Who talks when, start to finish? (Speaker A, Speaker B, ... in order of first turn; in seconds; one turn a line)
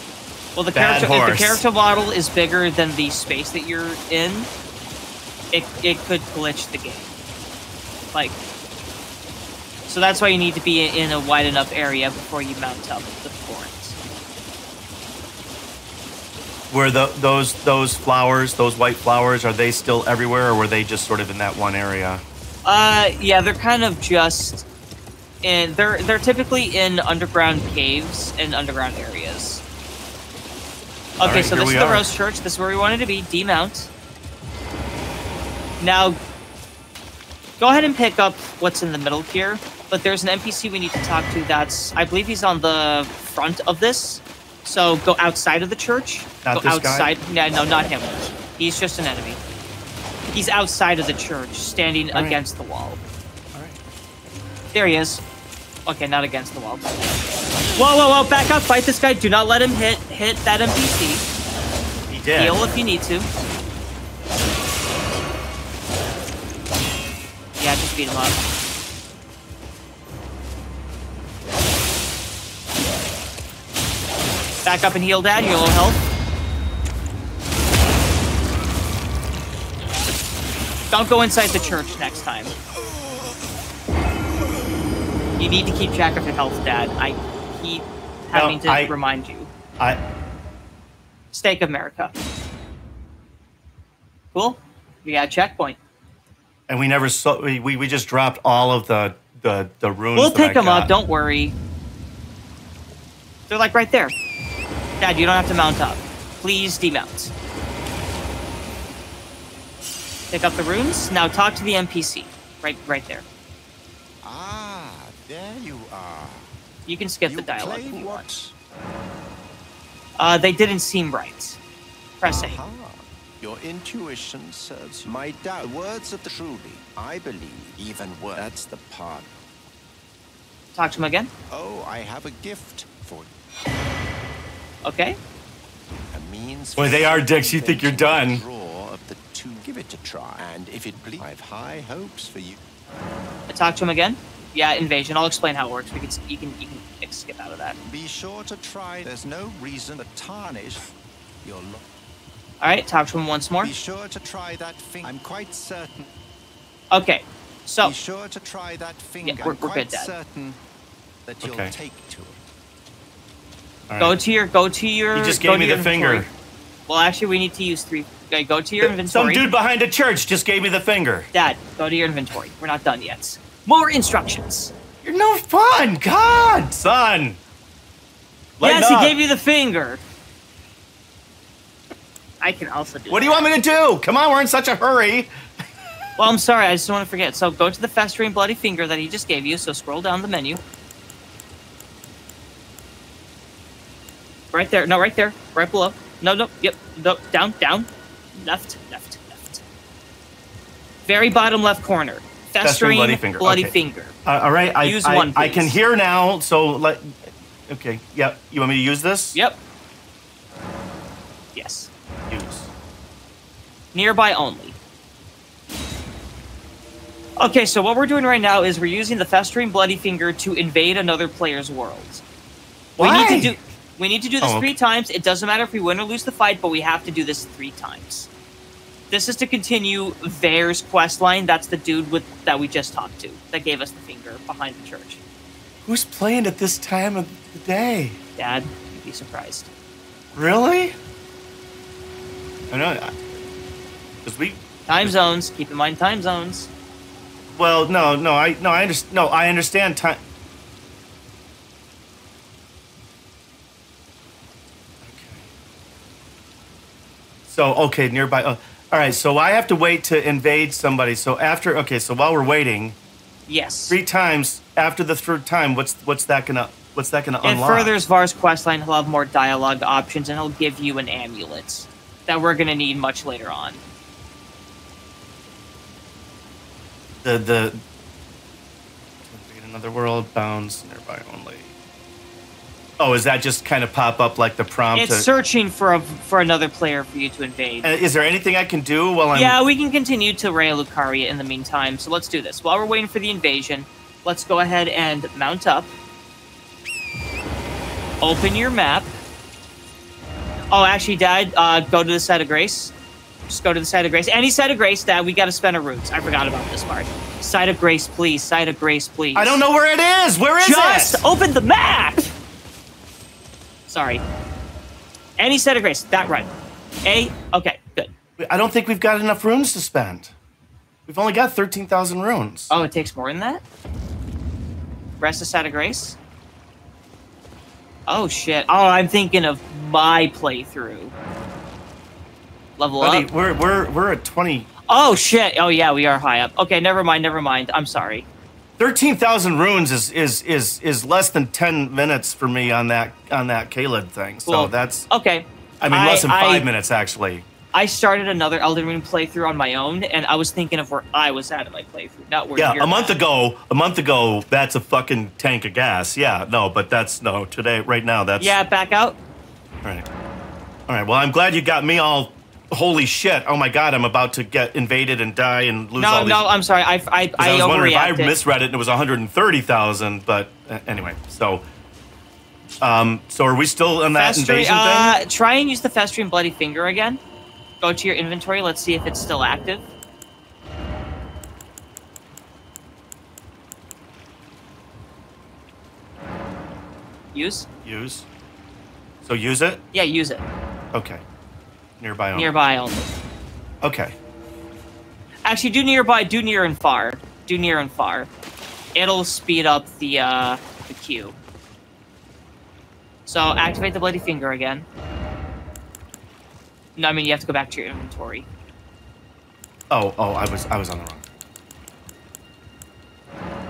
Speaker A: 0.6-4.5
Speaker B: 0.7-1.6
Speaker A: 5.5-7.1
Speaker A: 8.1-8.4
Speaker A: 9.9-14.0
Speaker B: 16.7-22.2
Speaker A: 22.6-24.7
Speaker A: 25.4-29.6
Speaker A: 31.2-33.9
Speaker B: 31.2-32.1
Speaker A: 35.8-36.2
Speaker A: 37.6-49.4
Speaker B: 46.4-47.1
Speaker A: 50.3-53.0
Speaker B: 52.1-52.4
Speaker B: 53.5-53.8
Speaker A: 54.7-55.2
Speaker A: 55.9-57.0
Speaker A: 57.8-61.2
Speaker B: 62.1-62.6
Speaker A: 62.4-63.3
Speaker A: 67.6-68.4
Speaker A: 74.7-76.0
Speaker A: 80.9-82.5
Speaker A: 85.4-89.5
Speaker B: 88.3-88.9
Speaker A: 91.3-92.1
Speaker A: 94.3-95.8
Speaker B: 96.7-101.0
Speaker A: 100.2-101.5
Speaker A: 103.5-104.2
Speaker A: 105.0-107.3
Speaker A: 110.3-113.2
Speaker C: 114.2-116.5
Speaker A: 116.9-118.3
Speaker C: 117.2-118.5
Speaker A: 120.2-121.6
Speaker A: 122.2-122.6
Speaker C: 122.2-129.5
Speaker A: 130.8-131.3
Speaker C: 131.5-133.3
Speaker A: 134.8-135.2
Speaker C: 136.1-142.6
Speaker B: 136.8-138.4
Speaker A: 143.5-147.8
Speaker C: 147.8-150.9
Speaker C: 151.4-151.8
Speaker A: 152.6-153.7
Speaker C: 153.6-156.1
Speaker A: 156.9-157.9
Speaker C: 157.8-160.6
Speaker A: 159.2-160.1
Speaker C: 161.3-162.4
Speaker B: 161.4-161.7
Speaker B: 163.9-164.2
Speaker A: 164.0-166.3
Speaker B: 165.1-166.3
Speaker A: 166.9-169.5
Speaker B: 168.8-171.3
Speaker A: 171.3-174.7
Speaker B: 175.0-177.4
Speaker B: 178.6-179.2
Speaker A: 178.6-180.0
Speaker A: 182.4-183.5
Speaker B: 183.1-185.3
Speaker A: 186.2-190.6
Speaker A: 194.5-199.6
Speaker A: 201.1-204.2
Speaker B: 202.6-203.7
Speaker B: 204.2-209.4
Speaker A: 204.8-205.8
Speaker A: 209.3-209.6
Speaker A: 211.6-211.9
Speaker B: 212.3-212.7
Speaker A: 213.9-214.8
Speaker A: 217.4-222.2
Speaker A: 223.0-228.3
Speaker B: 223.0-223.6
Speaker B: 224.4-224.7
Speaker A: 229.1-235.2
Speaker B: 235.9-238.2
Speaker A: 238.4-239.7
Speaker B: 240.3-240.9
Speaker B: 242.7-243.2
Speaker B: 244.2-245.2
Speaker A: 244.9-246.7
Speaker B: 247.5-250.2
Speaker B: 255.0-255.5
Speaker B: 257.5-263.0
Speaker A: 263.5-264.0
Speaker B: 263.9-268.0
Speaker A: 267.4-273.8
Speaker B: 277.2-277.8
Speaker B: 279.2-281.7
Speaker B: 283.0-285.3
Speaker A: 284.9-287.9
Speaker B: 287.8-289.6
Speaker A: 289.3-295.9
Speaker A: 298.2-299.1
Speaker A: 300.7-302.9
Speaker A: 303.5-309.6
Speaker B: 309.4-311.2
Speaker A: 310.6-312.4
Speaker A: 313.9-314.2
Speaker A: 315.4-316.5
Speaker A: 317.1-318.1
Speaker B: 318.4-320.3
Speaker B: 321.1-322.7
Speaker A: 322.7-323.6
Speaker A: 325.2-326.2
Speaker A: 328.1-331.1
Speaker A: 332.8-333.3
Speaker B: 333.0-334.7
Speaker A: 334.9-338.3
Speaker B: 338.8-345.1
Speaker A: 344.5-346.7
Speaker B: 345.8-347.5
Speaker A: 347.7-353.2
Speaker B: 352.6-358.6
Speaker A: 358.4-359.2
Speaker B: 360.9-366.5
Speaker A: 366.0-368.4
Speaker B: 367.4-371.7
Speaker B: 372.8-375.2
Speaker A: 374.1-377.2
Speaker A: 377.8-379.9
Speaker A: 387.3-387.7
Speaker B: 387.8-388.3
Speaker B: 389.2-389.8
Speaker A: 389.9-390.5
Speaker B: 390.9-391.2
Speaker B: 392.0-392.5
Speaker A: 392.4-393.1
Speaker B: 393.8-394.1
Speaker A: 395.4-398.3
Speaker A: 398.9-401.4
Speaker A: 403.3-404.9
Speaker A: 407.0-408.5
Speaker B: 409.9-411.3